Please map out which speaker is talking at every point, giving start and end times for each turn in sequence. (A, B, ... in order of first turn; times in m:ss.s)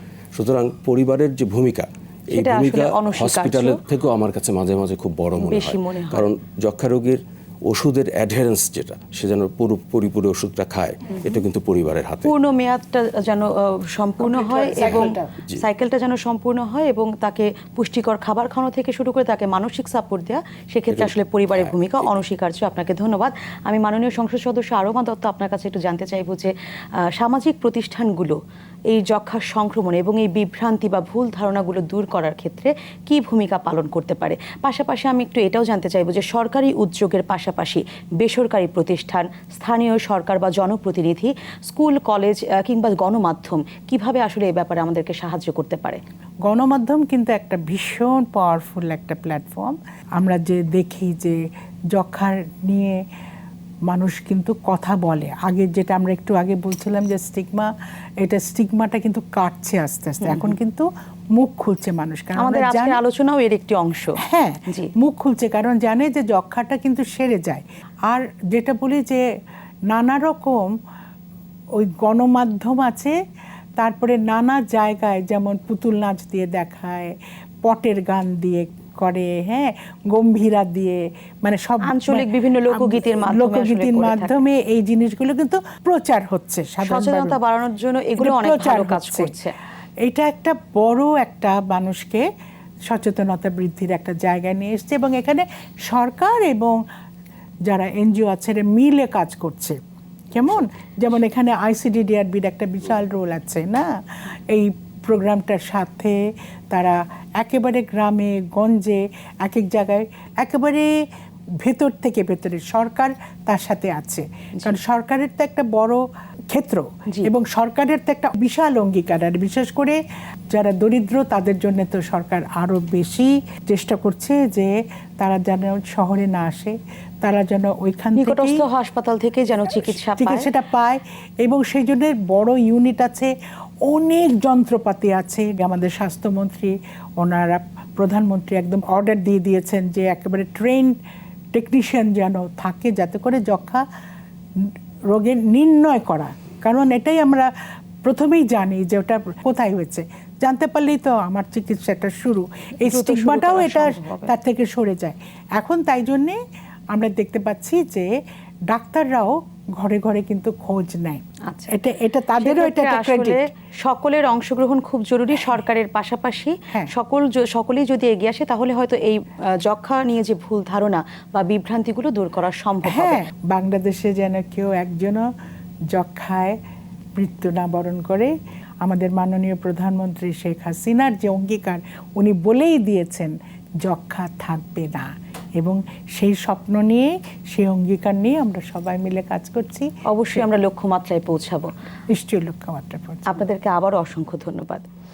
0:00.3-0:12.3 A
0:02.3-0:03.8 B
0:05.4-0:06.3 B
0:11.1-0:11.4 B
0:12.2-0:26.5 B
0:14.2-0:15.3 C
0:14.8-0:15.6 A
0:20.9-0:22.1 A
0:27.1-0:28.4 B
0:28.9-0:46.0 B
0:46.4-0:51.4 C
0:51.9-0:53.0 C
0:53.9-1:03.0 C
1:00.2-1:00.6 B
1:02.4-1:04.9 B
1:04.2-1:09.2 C
1:09.9-1:10.7 C
1:11.8-1:13.2 C
1:13.8-1:17.1 C
1:17.6-1:27.4 C
1:21.8-1:24.3 B
1:26.8-1:29.5 B
1:28.2-1:29.3 C
1:30.0-1:32.2 C
1:32.9-1:36.8 C
1:37.7-1:39.8 C
1:40.3-1:43.9 C
1:44.5-1:50.9 C
1:51.6-2:00.0 C
2:00.5-2:08.6 C
2:08.2-2:10.5 B
2:09.7-2:13.3 C
2:13.8-2:20.9 C
2:21.5-2:23.8 C
2:24.6-2:27.5 C
2:28.0-2:36.4 C
2:32.8-2:34.3 B
2:36.9-2:38.2 C
2:38.7-2:43.4 C
2:41.5-2:41.7 B
2:42.4-2:53.2 B
2:52.9-2:55.3 C
2:55.9-2:56.6 C
2:57.2-3:10.4 C
3:10.1-3:11.7 B
3:12.1-3:13.4 C
3:13.2-3:14.8 B